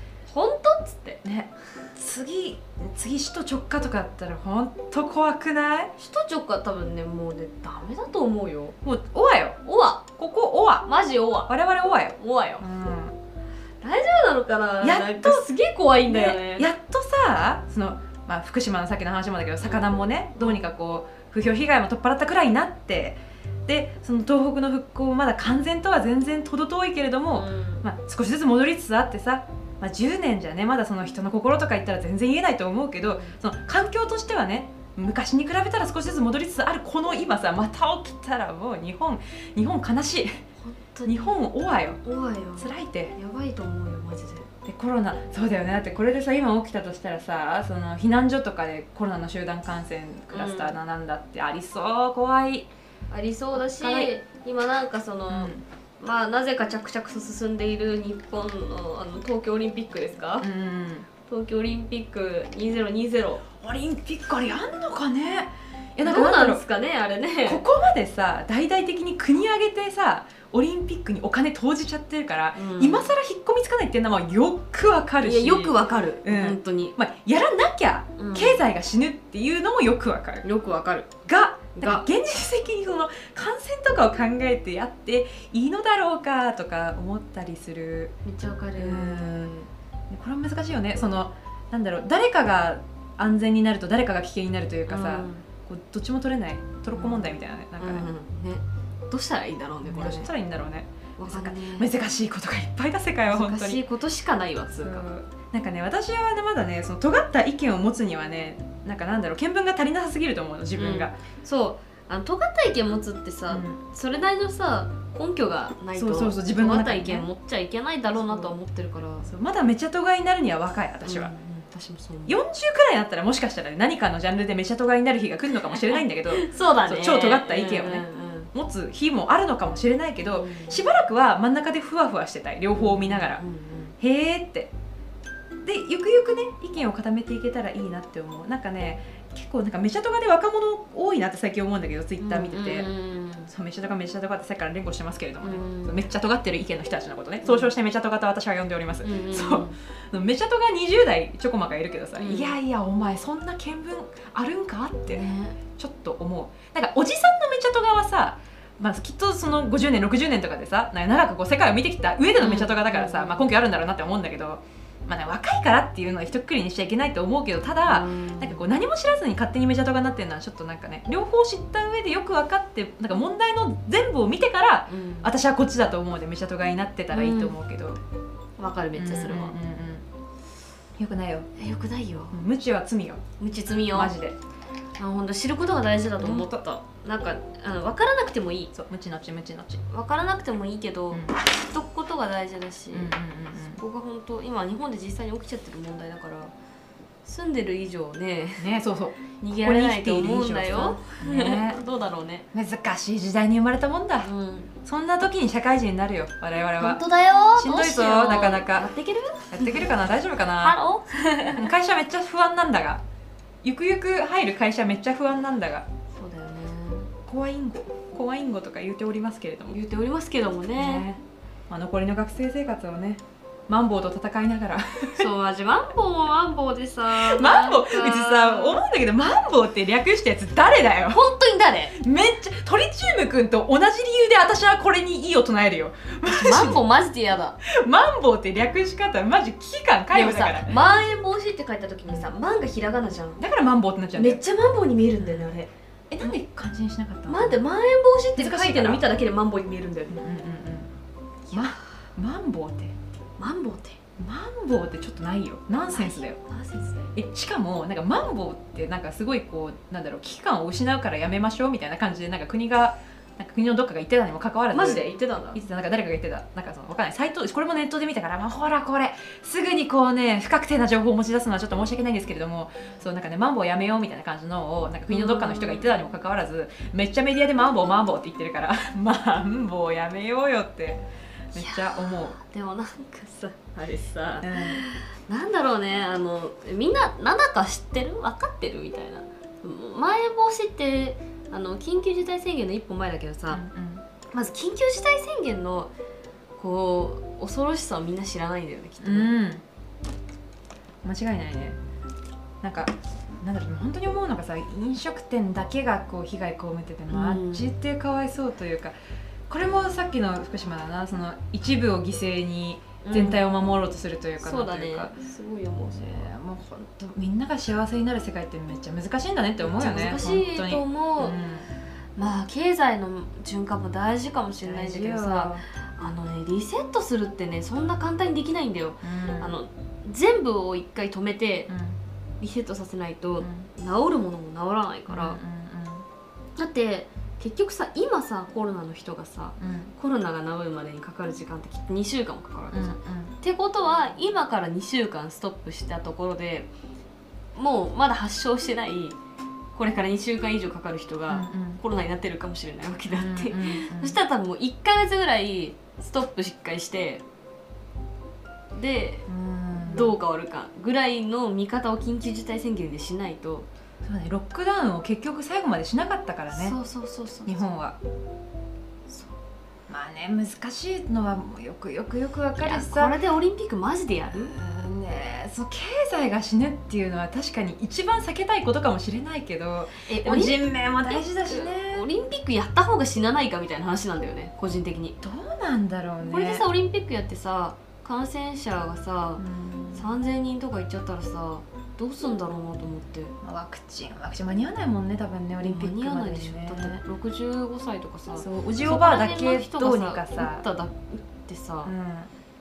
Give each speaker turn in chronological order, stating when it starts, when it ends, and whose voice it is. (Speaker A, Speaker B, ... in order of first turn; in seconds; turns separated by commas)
Speaker A: 0.3-1.2, Speaker B: 1.2-5.9, Speaker A: 6.0-8.8, Speaker B: 8.8-9.6, Speaker A: 9.6-10.1, Speaker B: 10.2-10.9, Speaker A: 10.8-11.5, Speaker B: 11.5-13.2, Speaker A: 12.2-12.6, Speaker A: 13.8-16.7, Speaker B: 14.8-15.4, Speaker B: 16.1-40.4, Speaker A: 19.6-20.6, Speaker A: 27.3-27.9, Speaker A: 33.1-33.4, Speaker A: 40.6-41.3, Speaker B: 41.0-42.0, Speaker A: 42.0-44.5, Speaker B: 42.5-43.1, Speaker B: 44.6-52.7, Speaker A: 50.3-50.8, Speaker A: 53.1-60.5, Speaker B: 53.5-54.1, Speaker B: 55.3-55.6, Speaker B: 60.4-61.1, Speaker A: 61.2-63.5, Speaker B: 63.6-66.6, Speaker A: 66.0-67.6, Speaker B: 67.4-80.4, Speaker A: 72.5-73.1, Speaker A: 75.2-77.0, Speaker A: 78.2-78.6, Speaker A: 80.4-81.1, Speaker B: 81.2-88.1, Speaker A: 81.8-82.0, Speaker A: 88.2-89.7, Speaker B: 88.8-89.5, Speaker B: 90.1-98.1, Speaker A: 94.9-95.4, Speaker A: 96.9-100.3, Speaker B: 99.8-103.8, Speaker A: 101.2-101.9, Speaker A: 103.3-105.1, Speaker B: 104.7-111.1, Speaker A: 110.7-119.3, Speaker B: 113.5-113.8, Speaker B: 115.9-117.3, Speaker B: 118.1-118.5, Speaker B: 119.2-121.3, Speaker A: 121.0-122.4, Speaker B: 122.3-133.4, Speaker A: 125.7-128.5, Speaker A: 130.3-130.8, Speaker A: 132.7-133.9, Speaker B: 134.0-134.7, Speaker B: 135.6-142.9, Speaker A: 142.2-143.5, Speaker B: 143.5-155.2, Speaker A: 145.4-146.0, Speaker A: 147.4-147.7, Speaker A: 149.0-149.8, Speaker A: 152.2-152.6, Speaker A: 155.1-155.6, Speaker B: 155.8-178.0, Speaker A: 162.4-163.5, Speaker A: 167.8-168.7, Speaker A: 174.9-175.3, Speaker A: 177.1-177.5, Speaker A: 178.6-179.6, Speaker B: 178.9-180.0, Speaker B: 181.0-181.5, Speaker A: 181.6-182.3, Speaker B: 182.3-183.2, Speaker A: 183.4-184.1, Speaker B: 183.9-184.3, Speaker A: 185.0-188.7, Speaker B: 186.2-186.6, Speaker B: 188.7-189.8, Speaker A: 189.9-196.5, Speaker B: 191.1-191.3, Speaker B: 192.9-193.8, Speaker A: 197.2-198.7, Speaker B: 198.6-201.8, Speaker A: 199.4-202.4, Speaker B: 202.5-204.3, Speaker A: 204.2-204.7, Speaker B: 204.8-207.0, Speaker A: 206.8-210.0, Speaker B: 207.6-208.8, Speaker B: 209.5-210.8, Speaker A: 210.6-211.6, Speaker B: 211.5-213.0, Speaker B: 213.6-215.9, Speaker A: 216.1-217.1, Speaker B: 217.2-219.8, Speaker A: 219.7-221.1, Speaker B: 220.8-225.3, Speaker A: 225.1-228.8, Speaker B: 227.1-231.2, Speaker A: 231.1-232.0, Speaker B: 231.9-236.8, Speaker A: 236.2-237.6, Speaker B: 237.6-240.8, Speaker A: 240.1-243.4, Speaker B: 243.4-244.4, Speaker A: 244.2-245.7, Speaker B: 245.2-245.5, Speaker B: 246.1-247.6, Speaker A: 247.3-250.2, Speaker B: 248.3-249.1, Speaker B: 250.1-250.9, Speaker A: 251.5-251.8, Speaker B: 251.5-252.9, Speaker A: 253.4-254.0, Speaker B: 254.2-256.4, Speaker A: 255.9-257.1, Speaker B: 257.1-282.4, Speaker A: 264.7-265.6, Speaker A: 275.1-276.0, Speaker A: 281.5-293.6, Speaker B: 284.4-284.8, Speaker B: 293.5-294.0, Speaker A: 294.3-295.9, Speaker A: 296.6-299.3, Speaker B: 299.0-299.6, Speaker B: 301.0-301.8, Speaker B: 302.6-308.9, Speaker A: 307.1-307.7, Speaker B: 309.5-315.1, Speaker A: 313.0-313.4, Speaker A: 314.4-316.3, Speaker B: 315.9-321.7, Speaker A: 319.6-321.4, Speaker A: 322.1-331.7, Speaker B: 324.6-325.6, Speaker B: 329.0-329.5, Speaker B: 331.7-332.0, Speaker A: 332.4-335.4, Speaker B: 333.4-333.7, Speaker B: 335.1-336.1, Speaker A: 336.6-346.7, Speaker B: 339.6-339.9, Speaker B: 342.7-343.3, Speaker A: 347.5-349.2, Speaker A: 349.8-357.2, Speaker B: 351.3-351.8, Speaker B: 353.1-354.2, Speaker A: 358.7-359.3, Speaker B: 359.3-360.1, Speaker A: 359.8-363.7, Speaker B: 364.0-366.7, Speaker A: 366.5-367.6, Speaker B: 367.4-368.0, Speaker A: 369.1-369.3, Speaker B: 369.9-373.1, Speaker A: 372.6-374.5, Speaker B: 374.3-382.1, Speaker A: 380.0-385.2, Speaker B: 385.2-386.6, Speaker A: 386.2-393.4, Speaker B: 389.4-390.1, Speaker B: 393.4-397.0, Speaker A: 395.6-401.9, Speaker B: 398.4-400.6, Speaker B: 401.8-402.3